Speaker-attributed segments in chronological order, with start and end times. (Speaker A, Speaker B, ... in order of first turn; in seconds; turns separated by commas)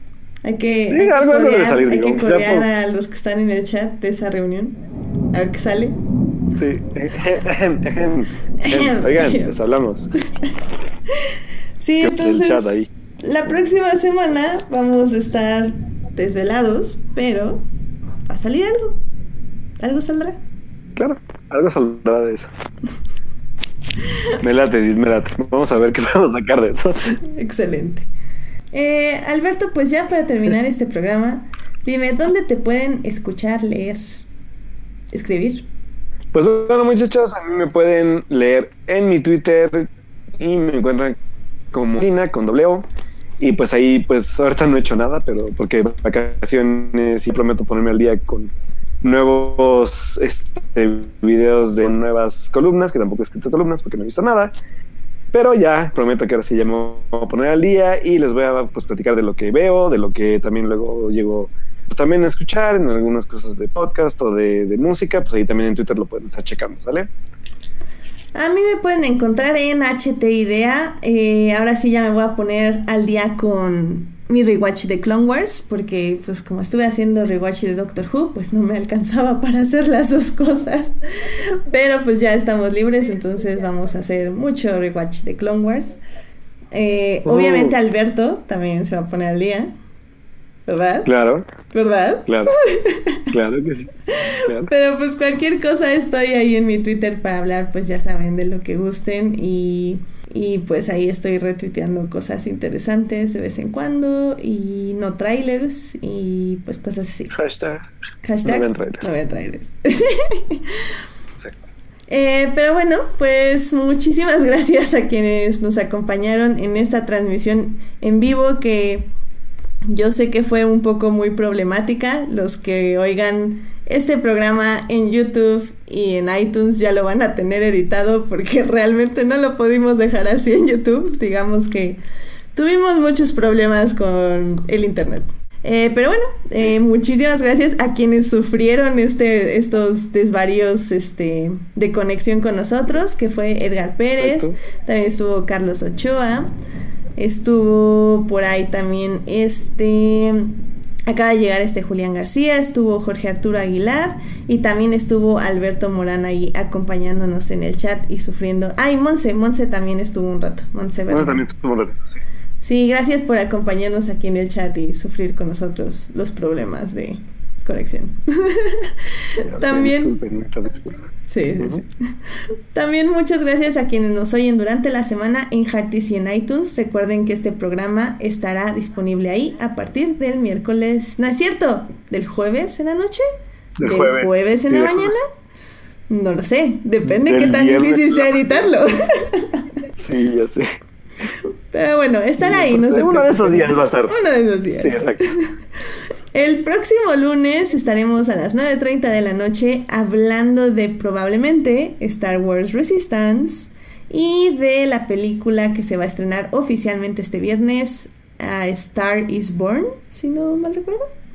Speaker A: 0.4-4.8, Speaker B: 0.9-2.7, Speaker A: 5.3-6.0, Speaker B: 6.5-10.1, Speaker A: 8.6-9.6, Speaker A: 11.1-17.6, Speaker B: 12.0-12.9, Speaker A: 18.3-19.0, Speaker A: 19.8-20.4, Speaker B: 20.9-22.5, Speaker B: 24.4-27.2, Speaker A: 27.2-28.1, Speaker A: 28.7-34.0, Speaker A: 35.1-35.6, Speaker B: 36.3-41.1, Speaker B: 41.7-42.9, Speaker B: 43.4-54.5, Speaker B: 55.3-67.1, Speaker A: 68.3-86.0, Speaker A: 86.7-89.7, Speaker B: 87.2-87.8, Speaker A: 90.7-91.1, Speaker B: 91.0-91.5, Speaker A: 91.7-93.3, Speaker B: 92.3-92.5, Speaker B: 93.3-93.9, Speaker A: 94.1-107.3, Speaker B: 94.4-94.7, Speaker B: 107.3-107.9, Speaker A: 108.2-110.8, Speaker B: 108.4-109.0, Speaker A: 112.1-119.1, Speaker A: 119.8-132.0, Speaker A: 132.5-146.5, Speaker B: 144.2-144.5, Speaker A: 147.2-161.4, Speaker B: 161.1-162.2, Speaker A: 162.6-170.2, Speaker B: 169.4-171.0, Speaker A: 171.3-171.9, Speaker A: 172.7-183.2, Speaker B: 183.8-185.1, Speaker A: 183.8-185.2, Speaker A: 186.1-189.6, Speaker B: 187.0-188.4, Speaker B: 189.9-190.7, Speaker A: 191.4-195.5, Speaker B: 192.4-194.1, Speaker B: 194.7-195.3, Speaker A: 196.3-211.1